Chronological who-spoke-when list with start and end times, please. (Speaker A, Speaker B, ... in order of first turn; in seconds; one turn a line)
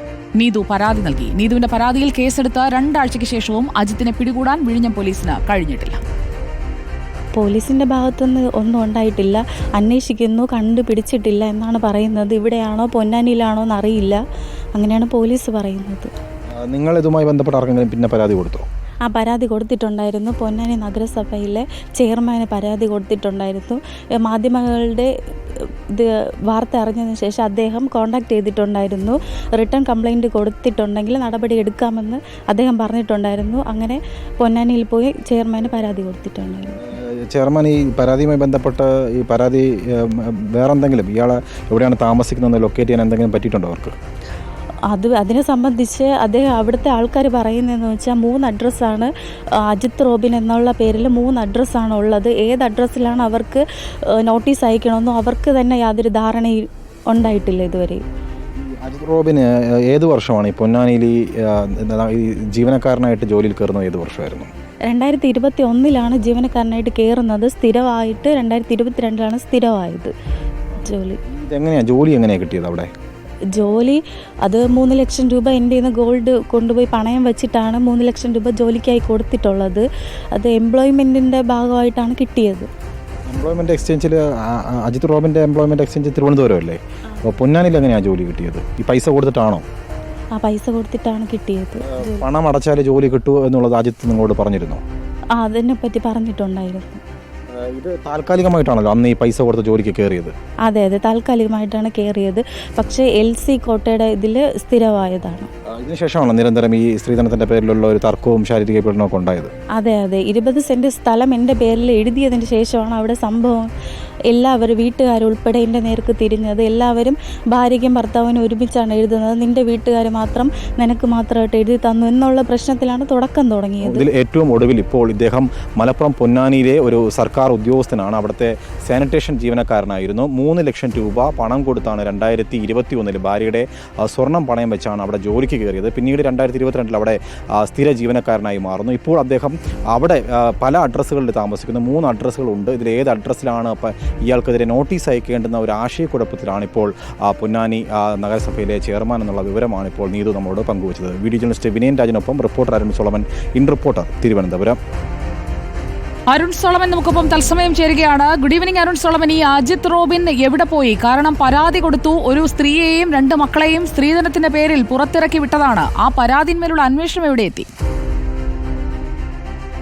Speaker A: 0.4-6.0
Speaker B: 7.4-14.2
Speaker B: 14.8-16.1
Speaker C: 16.7-18.6
Speaker B: 19.1-25.1
Speaker B: 25.9-36.8
Speaker C: 36.9-43.9
Speaker B: 44.9-49.1
Speaker B: 49.7-53.6
Speaker B: 54.2-58.0
Speaker C: 58.6-64.5
Speaker B: 64.9-70.1
Speaker B: 70.8-71.2
Speaker C: 71.3-72.9
Speaker B: 73.6-82.7
Speaker C: 83.3-89.6
Speaker B: 90.4-92.3
Speaker C: 91.9-94.8
Speaker B: 95.4-97.0
Speaker C: 97.6-100.3
Speaker B: 100.7-105.5
Speaker C: 105.7-109.5
Speaker B: 109.8-113.7
Speaker B: 114.3-124.1
Speaker C: 123.8-154.8
Speaker A: 156.3-167.7